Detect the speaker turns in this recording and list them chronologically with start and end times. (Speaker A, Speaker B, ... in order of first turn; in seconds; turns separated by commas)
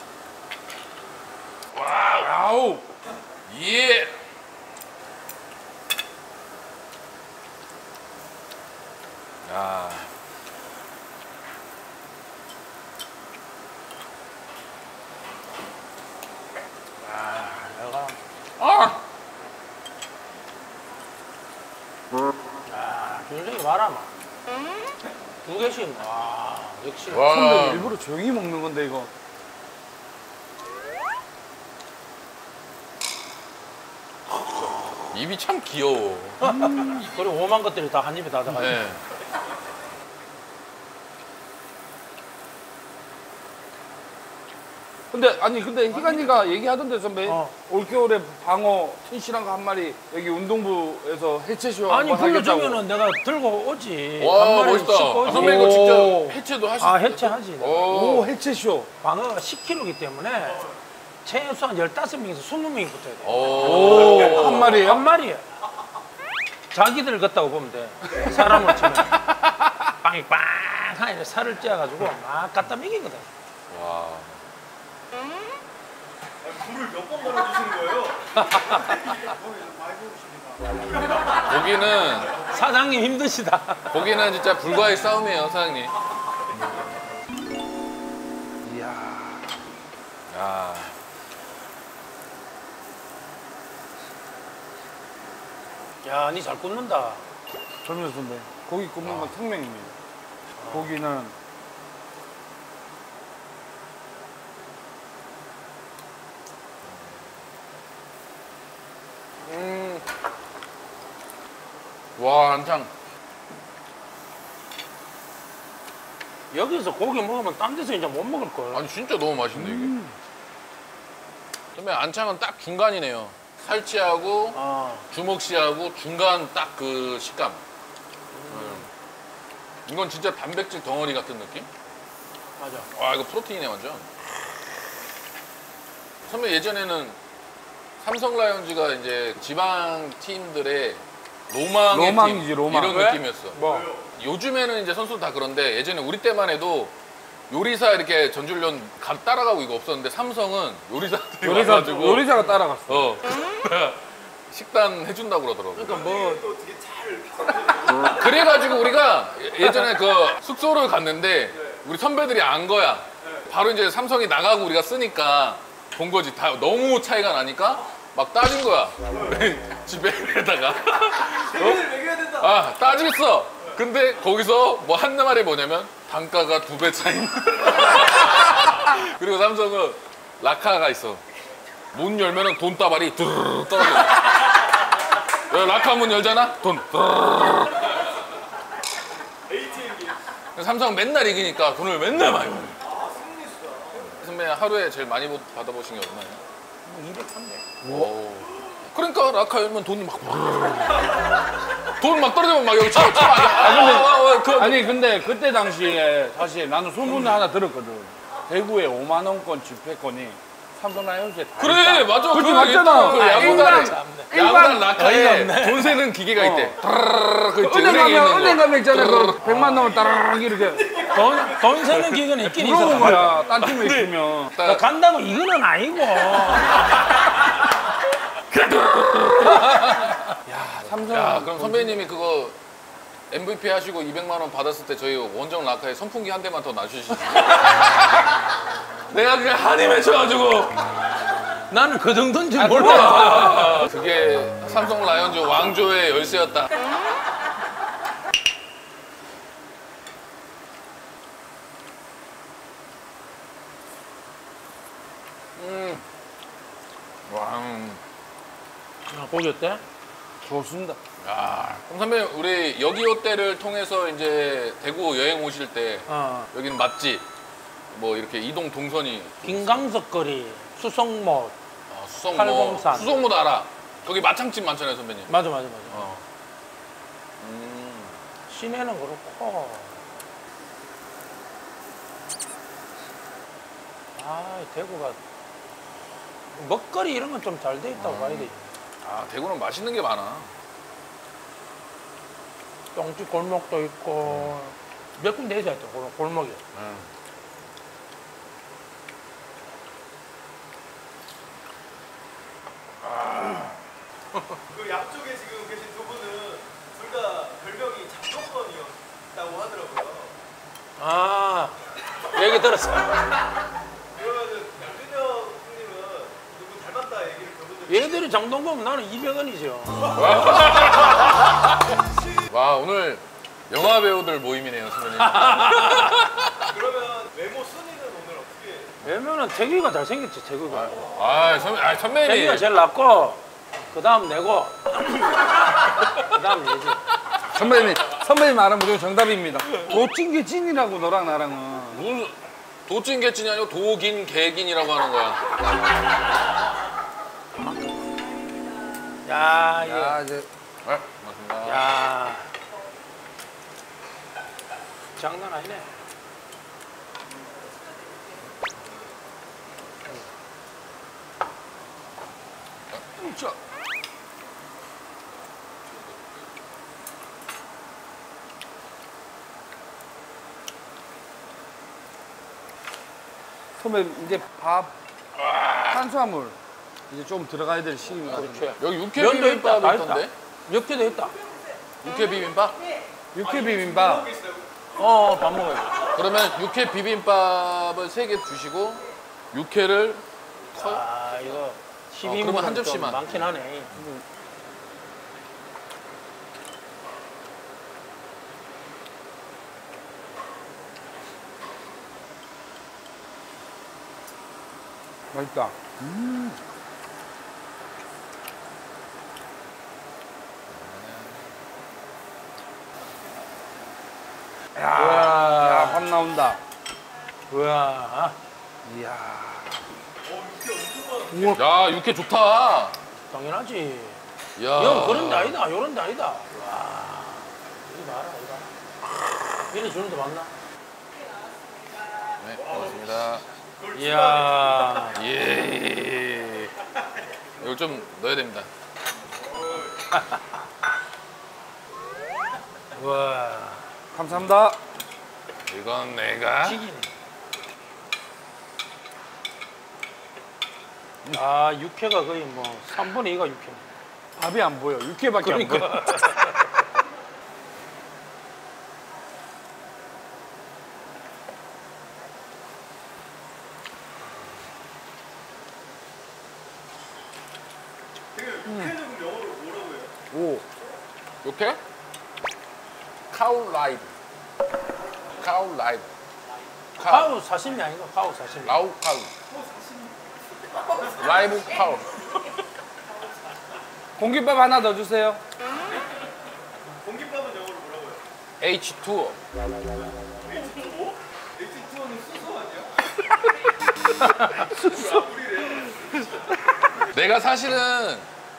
Speaker A: 1.7-2.4, Speaker B: 2.2-2.8, Speaker A: 3.5-4.1, Speaker A: 9.4-10.1, Speaker C: 17.0-18.1, Speaker A: 18.6-19.0, Speaker C: 22.6-24.1, Speaker C: 25.4-27.3, Speaker A: 27.1-27.9, Speaker B: 27.3-29.1, Speaker A: 35.1-36.4, Speaker B: 36.4-37.1, Speaker C: 36.4-38.8, Speaker A: 38.5-39.0, Speaker B: 45.1-52.8, Speaker C: 45.9-46.3, Speaker C: 47.2-47.5, Speaker C: 51.9-56.1, Speaker A: 54.2-58.3, Speaker B: 55.3-56.4, Speaker C: 56.8-57.9, Speaker B: 57.9-58.9, Speaker C: 59.0-60.7, Speaker D: 60.5-60.7, Speaker C: 61.2-65.5, Speaker A: 63.2-64.8, Speaker B: 63.6-65.0, Speaker C: 66.7-69.3, Speaker C: 69.8-73.3, Speaker A: 73.7-74.4, Speaker D: 76.4-82.5, Speaker C: 78.4-78.8, Speaker A: 81.4-82.3, Speaker C: 82.5-84.0, Speaker A: 83.9-85.9, Speaker B: 88.6-89.6, Speaker A: 90.3-90.9, Speaker C: 96.0-97.2, Speaker B: 97.8-99.9, Speaker A: 99.0-99.3, Speaker C: 100.6-100.9, Speaker B: 100.7-101.3, Speaker A: 109.5-110.0, Speaker C: 109.6-110.0, Speaker A: 112.2-112.9, Speaker C: 116.5-118.8, Speaker A: 118.7-119.9, Speaker B: 119.5-120.1, Speaker A: 121.7-124.6, Speaker C: 124.5-125.1, Speaker A: 125.1-127.6, Speaker C: 128.3-128.9, Speaker A: 128.5-128.9, Speaker A: 129.8-131.7, Speaker C: 132.6-132.9, Speaker A: 132.9-134.1, Speaker A: 136.3-137.2, Speaker A: 138.0-143.6, Speaker B: 141.9-143.1, Speaker C: 142.8-143.9, Speaker D: 143.6-144.1, Speaker A: 144.2-146.9, Speaker A: 147.5-152.3, Speaker B: 151.4-153.1, Speaker C: 152.3-152.6, Speaker A: 152.9-156.0, Speaker C: 155.7-156.4, Speaker D: 155.8-158.5, Speaker A: 158.0-181.2, Speaker D: 163.2-163.5, Speaker D: 171.3-172.5, Speaker A: 181.9-184.8, Speaker A: 185.5-188.2, Speaker D: 189.4-190.2, Speaker A: 190.6-192.8, Speaker D: 192.8-194.2, Speaker A: 194.1-196.4, Speaker C: 196.8-197.7, Speaker B: 197.8-198.1, Speaker A: 197.8-204.9, Speaker B: 203.3-213.9, Speaker A: 211.6-219.5, Speaker C: 213.1-215.9, Speaker B: 216.3-216.8, Speaker B: 217.6-220.9, Speaker C: 219.4-219.9, Speaker D: 220.6-221.8, Speaker C: 221.1-227.0, Speaker A: 221.9-223.8, Speaker B: 222.5-224.5, Speaker A: 224.5-224.8, Speaker A: 226.4-226.8, Speaker A: 228.5-232.6, Speaker C: 229.4-230.3, Speaker B: 230.8-232.0, Speaker A: 233.3-238.4, Speaker A: 239.1-240.9, Speaker C: 241.7-243.9, Speaker A: 242.6-246.8, Speaker A: 255.6-256.0, Speaker A: 257.3-258.0, Speaker C: 259.1-259.8, Speaker B: 260.4-261.0, Speaker A: 261.2-267.2, Speaker C: 266.1-266.5, Speaker A: 267.9-269.8, Speaker C: 269.4-271.5, Speaker A: 271.9-275.3, Speaker C: 272.3-273.2, Speaker C: 275.3-276.2, Speaker A: 275.9-276.2, Speaker A: 277.4-278.2, Speaker C: 278.5-280.0, Speaker C: 284.1-285.2, Speaker C: 286.5-288.7, Speaker A: 288.0-288.5, Speaker A: 289.0-290.5, Speaker C: 292.9-296.6, Speaker A: 294.3-294.5, Speaker A: 296.7-297.1, Speaker A: 303.1-303.7, Speaker C: 303.4-303.7, Speaker D: 304.7-310.3, Speaker C: 311.0-313.2, Speaker D: 314.1-318.2, Speaker C: 317.9-320.4, Speaker A: 320.1-321.5, Speaker D: 320.3-320.8, Speaker A: 322.5-326.6, Speaker C: 325.2-326.2, Speaker D: 326.6-329.0, Speaker C: 329.0-331.0, Speaker A: 330.7-332.6, Speaker C: 332.2-337.0, Speaker B: 337.5-342.1, Speaker A: 341.9-342.3, Speaker A: 342.9-345.4, Speaker C: 349.2-350.2, Speaker B: 349.8-350.5, Speaker A: 350.8-351.8, Speaker C: 351.6-352.5, Speaker C: 355.1-355.9, Speaker A: 362.9-363.3, Speaker A: 365.8-366.4, Speaker B: 373.8-374.9, Speaker A: 375.4-376.0, Speaker B: 375.9-376.6, Speaker B: 377.1-378.7, Speaker C: 378.2-381.3, Speaker A: 378.8-380.3, Speaker A: 382.0-382.8, Speaker B: 383.3-384.3, Speaker D: 383.4-384.9, Speaker C: 384.9-386.1, Speaker A: 386.1-390.2, Speaker C: 390.7-393.9, Speaker A: 390.7-391.0, Speaker A: 392.2-393.4, Speaker B: 393.9-394.2, Speaker B: 405.3-406.6, Speaker A: 410.7-411.5, Speaker B: 414.7-416.6, Speaker C: 414.9-416.1, Speaker C: 417.5-418.4, Speaker B: 418.8-419.8, Speaker D: 420.2-421.6, Speaker B: 421.3-421.6, Speaker A: 421.5-423.0, Speaker C: 423.3-424.2, Speaker A: 424.6-425.6, Speaker C: 424.7-428.7, Speaker C: 429.7-430.5, Speaker A: 432.4-433.4, Speaker D: 432.6-435.1, Speaker C: 433.9-435.2, Speaker A: 435.1-436.7, Speaker A: 437.6-438.7, Speaker D: 439.2-440.0, Speaker C: 440.1-440.4, Speaker C: 442.9-443.9, Speaker B: 444.1-444.8, Speaker A: 445.7-446.8, Speaker C: 446.6-447.1, Speaker C: 451.3-453.9, Speaker B: 454.4-456.1, Speaker C: 455.4-456.6, Speaker D: 468.3-470.1, Speaker B: 468.7-468.9, Speaker B: 470.3-470.6, Speaker A: 471.4-471.8, Speaker A: 473.3-474.1, Speaker A: 475.4-476.1, Speaker A: 476.9-477.3, Speaker C: 477.1-478.8, Speaker A: 478.6-479.3, Speaker D: 479.4-481.2, Speaker A: 481.1-482.4, Speaker B: 484.2-485.4, Speaker D: 487.0-488.2, Speaker A: 488.6-489.4, Speaker D: 490.0-492.9, Speaker D: 494.6-496.7, Speaker A: 497.1-498.3